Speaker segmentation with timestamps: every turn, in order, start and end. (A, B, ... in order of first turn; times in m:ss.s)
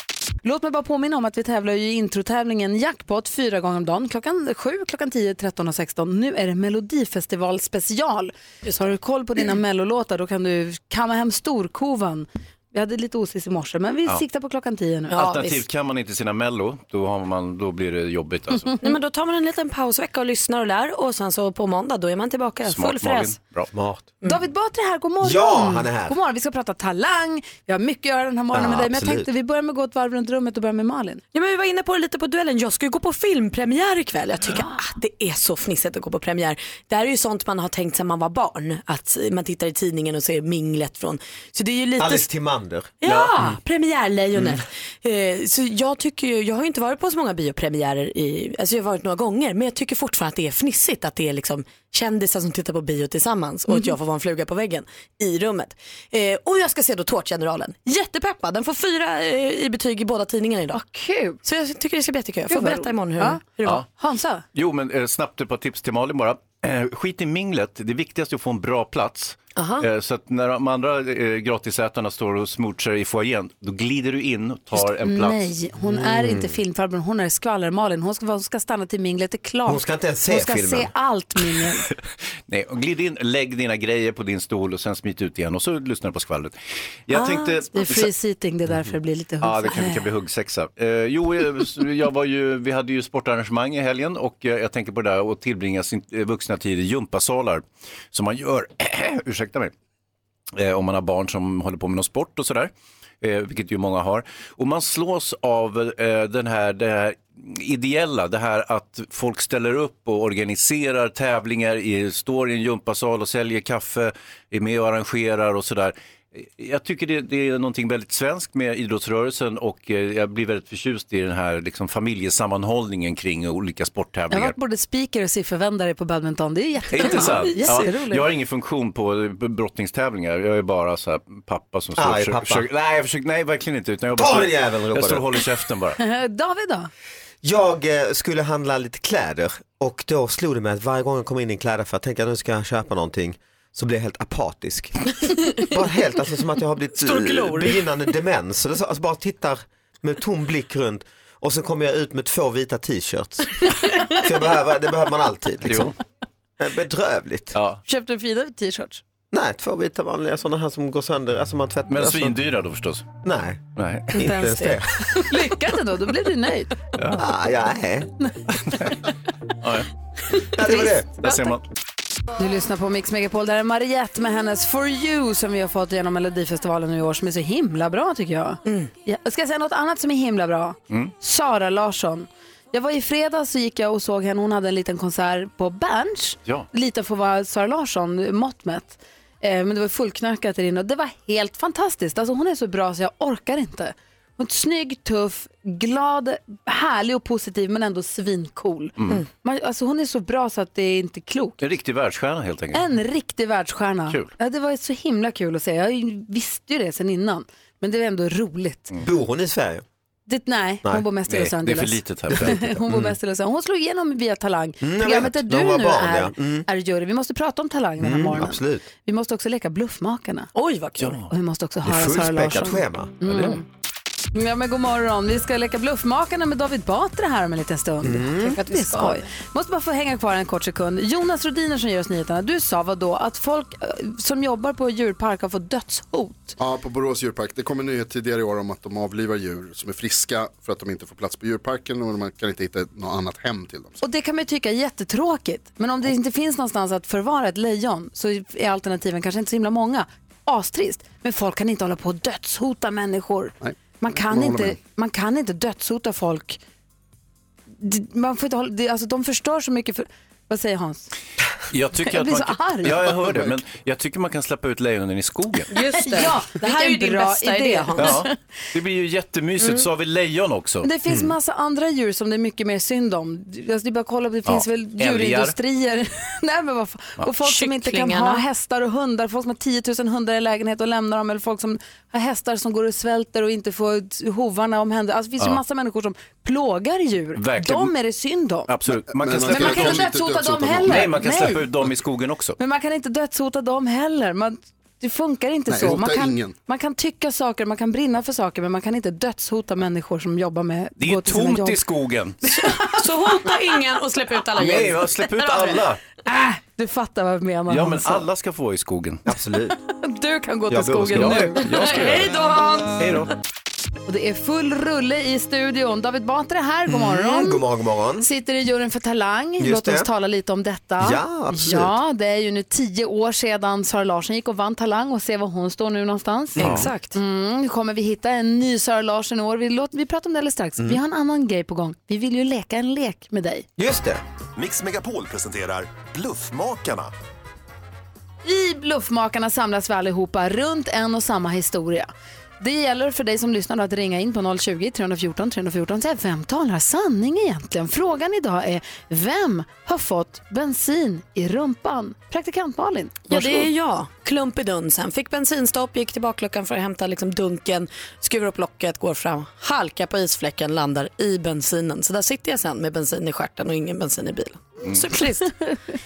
0:00.4-0:15.2 A
0:15.1-0:15.6 B
0:15.1-0:18.7 C
0:18.8-0:23.4 B
0:22.6-0:23.7 C
0:23.7-0:24.1 D
0:24.2-0:31.2 A
0:25.2-0:26.1 D
0:28.5-0:29.3 D
0:31.3-0:42.3 B
0:42.0-0:42.9 D
0:43.0-1:00.8 B
0:43.0-0:43.6 C
1:00.7-1:01.4 A
1:01.4-1:03.8 B
1:02.5-1:04.4 A
1:04.5-1:15.5 C
1:09.6-1:09.9 B
1:14.7-1:21.8 A
1:15.9-1:16.6 D
1:19.6-1:20.9 D
1:22.5-1:28.1 C
1:27.1-1:30.1 A
1:29.4-1:39.7 C
1:40.5-2:04.6 C
2:04.3-2:08.2 A
2:06.9-2:16.0 C
2:12.0-2:12.7 D
2:14.2-2:15.3 D
2:16.0-2:16.9 A
2:17.4-2:25.1 D
2:25.6-2:33.7 D
2:26.9-2:27.8 B
2:34.2-2:35.9 D
2:35.6-2:35.9 C
2:36.6-2:37.5 D
2:37.5-2:37.8 C
2:37.8-2:39.0 A
2:39.3-2:42.4 D
2:41.9-2:43.1 C
2:43.2-2:43.6 D
2:43.8-2:44.1 C
2:44.1-2:46.7 A
2:44.1-2:44.9 D
2:47.0-2:47.2 C
2:47.2-2:48.1 D
2:48.6-2:49.0 C
2:49.6-2:49.9 C
2:50.5-2:51.2 D
2:50.6-2:51.4 A
2:51.2-2:51.6 C
2:52.4-3:21.6 A
3:21.6-3:22.9 C
3:22.7-3:28.9 A
3:29.0-3:29.8 D
3:30.3-3:40.5 A
3:31.3-3:32.8 C
3:32.3-3:33.1 D
3:34.8-3:36.7 D
3:38.0-3:38.8 D
3:40.5-3:41.2 B
3:41.0-3:41.3 C
3:41.3-3:43.6 A
3:41.8-3:43.6 D
3:44.3-3:56.6 A
3:48.0-3:48.6 D
3:48.4-3:49.2 B
3:56.6-4:04.0 E
4:04.0-4:16.6 A
4:13.6-4:14.8 E
4:17.8-4:21.1 A
4:21.7-4:25.7 C
4:22.0-4:23.2 A
4:25.7-4:28.2 B
4:26.0-4:28.3 A
4:28.0-4:30.9 C
4:30.8-4:48.7 A
4:31.1-4:31.3 D
4:34.4-4:35.5 C
4:37.4-4:38.4 B
4:47.4-4:47.9 C
4:48.7-4:50.1 C
4:49.1-4:51.1 E
4:49.4-4:51.7 A
4:50.8-4:52.6 C
4:52.6-5:01.8 A
4:55.7-4:56.6 E
5:01.0-5:02.4 C
5:02.5-5:02.8 A
5:02.6-5:05.8 B
5:04.6-5:06.0 C
5:06.2-5:08.2 A
5:07.7-5:09.2 C
5:09.2-5:09.8 D
5:10.0-5:11.8 A
5:10.7-5:11.5 D
5:10.8-5:13.2 B
5:11.1-5:12.3 C
5:13.0-5:13.3 C
5:14.0-5:17.6 A
5:16.9-5:18.3 D
5:18.2-5:33.6 A
5:19.6-5:20.1 D
5:21.0-5:22.0 D
5:26.6-5:27.2 B
5:26.6-5:26.9 C
5:33.8-5:34.2 D
5:34.6-5:37.1 F
5:38.4-5:53.7 A
5:53.3-6:05.5 B